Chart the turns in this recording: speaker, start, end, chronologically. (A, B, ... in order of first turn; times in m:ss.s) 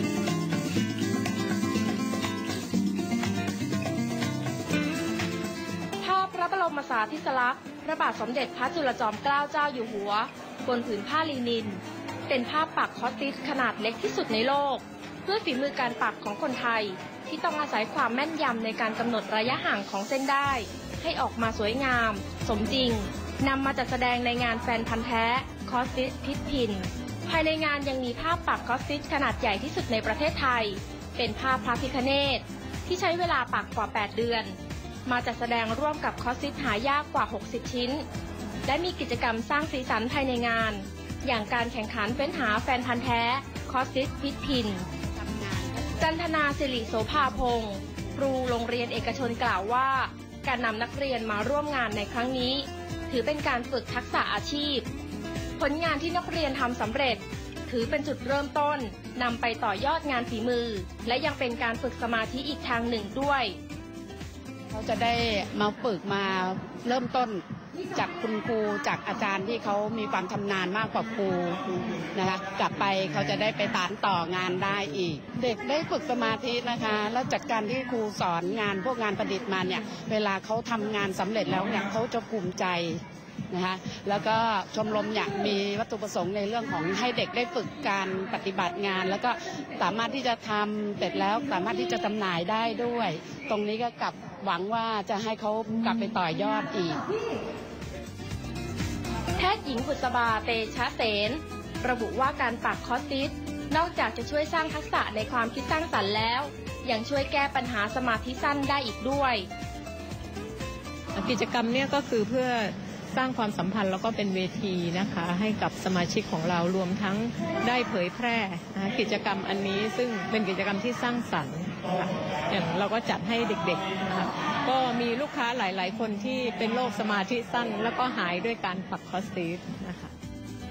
0:06.0-0:38.1 A
0:38.6-0:44.8 A
0:45.1-0:46.1 B
0:46.0-0:54.9 A
0:55.6-1:03.6 A
1:04.7-1:37.0 B
1:39.3-1:49.5 A
1:51.1-2:10.1 C